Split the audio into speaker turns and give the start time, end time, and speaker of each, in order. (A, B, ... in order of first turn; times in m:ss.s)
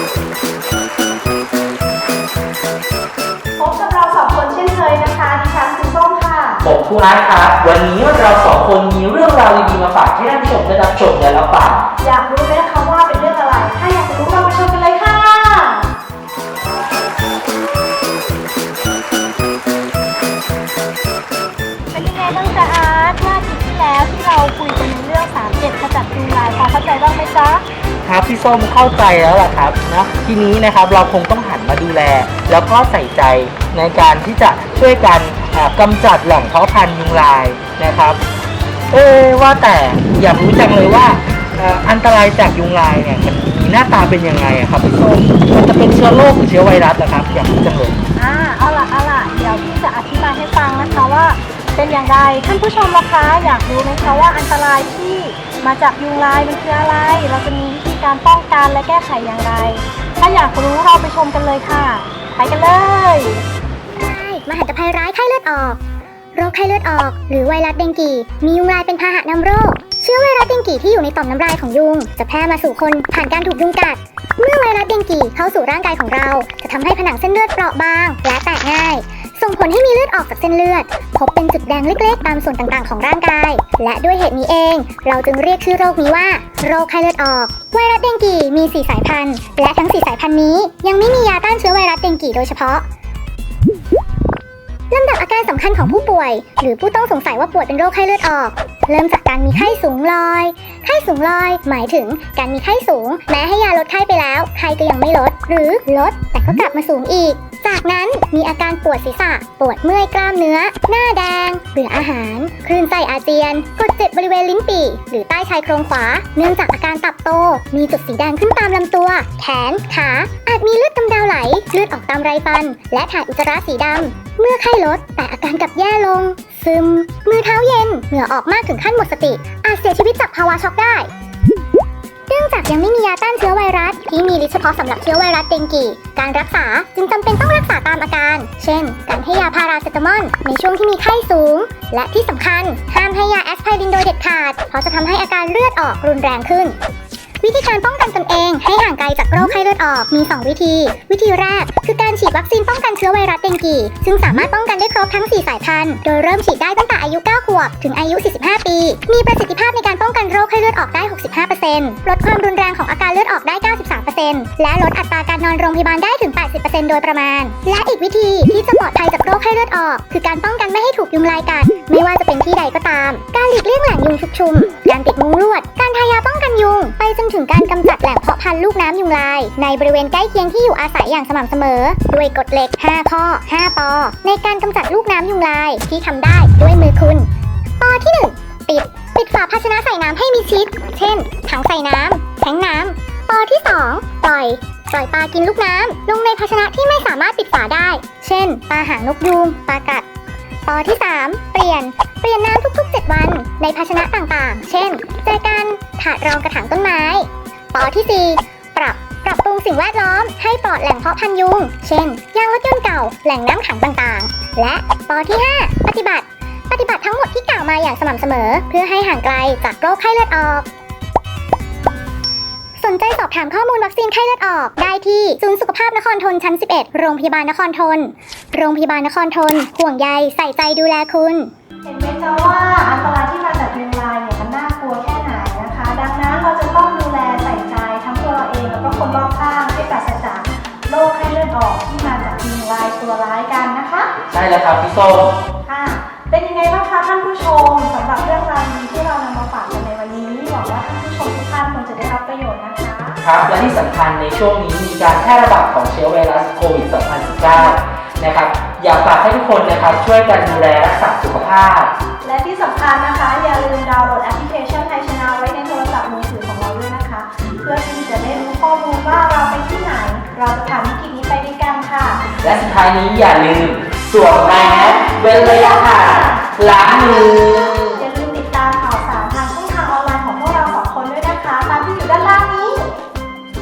0:03.6-0:06.6 A
0:06.6-0:11.9 B
0:12.0-0:15.9 A
0:21.9-0:27.6 A
0:28.0-0:38.2 B
0:38.9-0:48.0 B
0:48.1-1:03.4 A
1:04.0-1:05.8 C
1:06.3-1:32.8 C
1:34.9-2:11.1 C
2:12.3-2:26.8 C
2:27.4-3:07.3 C
3:07.8-3:20.0 C
3:20.6-3:40.7 C
3:42.8-3:51.5 C
3:51.8-4:04.1 A
4:04.3-4:05.3 B
4:05.6-4:13.2 A
4:13.2-4:21.9 B
4:22.2-4:32.2 A
4:32.4-4:38.0 B
4:34.2-4:36.5 A
4:37.9-4:42.9 A